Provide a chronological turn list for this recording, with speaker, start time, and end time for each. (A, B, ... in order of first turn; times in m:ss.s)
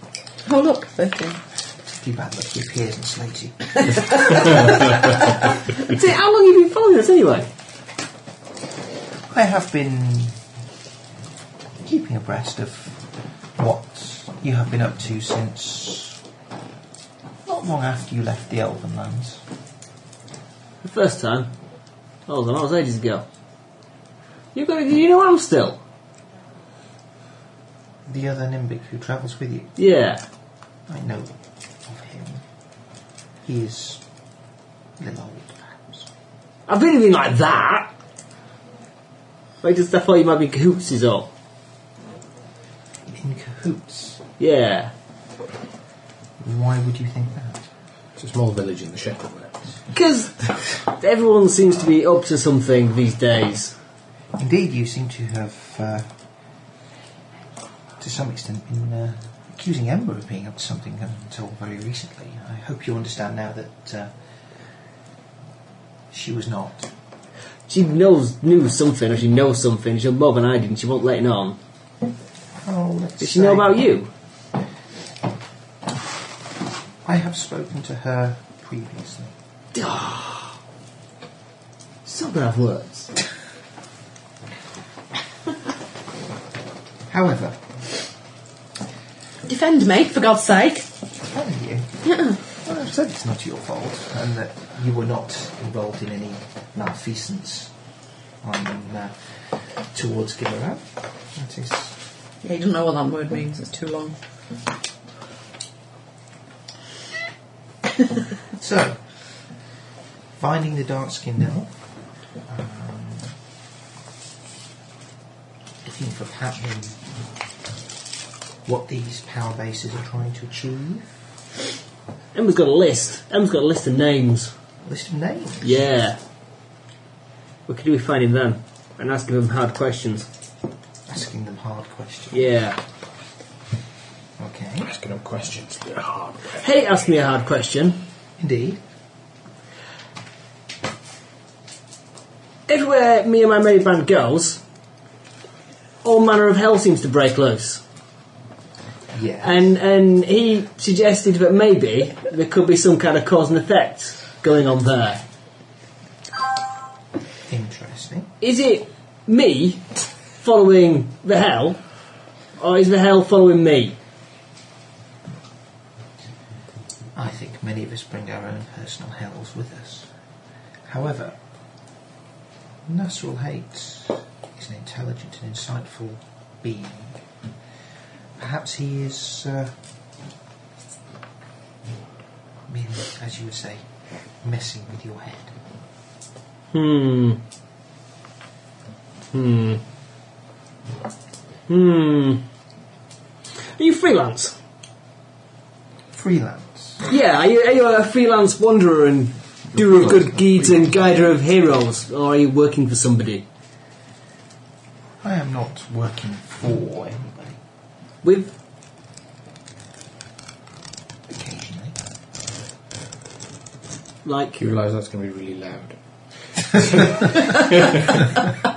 0:00.4-0:01.4 A
0:01.8-0:04.5 B
0:05.8-0:07.5 C
0:09.3-0:10.4 B
0:11.8-0:13.0 B
0:13.6-0:16.2 B
0:17.5-0:19.4 B
0:20.8-0:21.5 C
0:22.3-0:23.2 C
0:24.5-0:25.8 C
0:28.1-0:29.7 B
0:29.8-0:30.2 C
0:30.9-0:32.4 B
0:33.4-0:34.0 B
0:35.0-0:36.1 B
0:36.7-0:37.9 C
0:39.6-0:41.3 C
0:43.1-0:44.2 B
0:44.4-0:44.9 C
0:46.4-0:47.7 B
0:48.2-0:49.6 D
0:49.9-0:53.7 C
0:54.4-0:56.1 B
0:58.0-1:04.1 B
1:06.1-1:06.9 B
1:07.7-1:11.6 C
1:12.6-1:13.8 B
1:13.2-1:14.1 C
1:17.0-1:19.4 B
1:19.7-1:20.6 C
1:22.0-1:23.1 C
1:27.1-1:27.6 B
1:29.5-1:30.9 A
1:31.2-1:31.9 B
1:32.1-1:32.4 A
1:32.5-1:37.7 B
1:38.4-1:42.0 B
1:42.4-1:44.2 A
1:48.5-1:49.0 B
1:50.4-1:51.8 B
1:52.5-1:53.3 B
1:55.8-1:57.0 B
1:58.6-2:01.2 B
2:02.3-2:04.5 C
2:04.8-2:05.9 B
2:05.6-2:06.2 C
2:07.7-2:10.3 C
2:11.1-2:12.5 B
2:12.3-2:12.8 C
2:14.4-2:14.9 B
2:14.8-2:16.6 D
2:16.6-2:18.0 C
2:18.4-2:18.8 B
2:22.7-2:24.6 C
2:26.0-2:27.8 C
2:29.1-2:29.7 B
2:29.4-2:35.2 C
2:37.5-2:38.3 B
2:38.4-2:39.8 C
2:40.4-2:41.8 C
2:42.6-2:44.0 C
2:47.2-2:50.1 B
2:50.9-2:51.4 B
2:52.9-2:57.2 B
2:58.4-2:59.8 B
3:02.7-3:03.9 B
3:04.4-3:05.6 B
3:06.7-3:07.4 C
3:09.3-3:09.8 C
3:11.7-3:12.4 C
3:13.8-3:14.6 C
3:16.1-3:17.0 B
3:17.0-3:23.4 C
3:25.2-3:27.6 B
3:28.2-3:28.5 C
3:31.3-3:32.0 B
3:34.2-3:34.6 C
3:34.6-3:36.0 D
3:36.6-3:38.3 D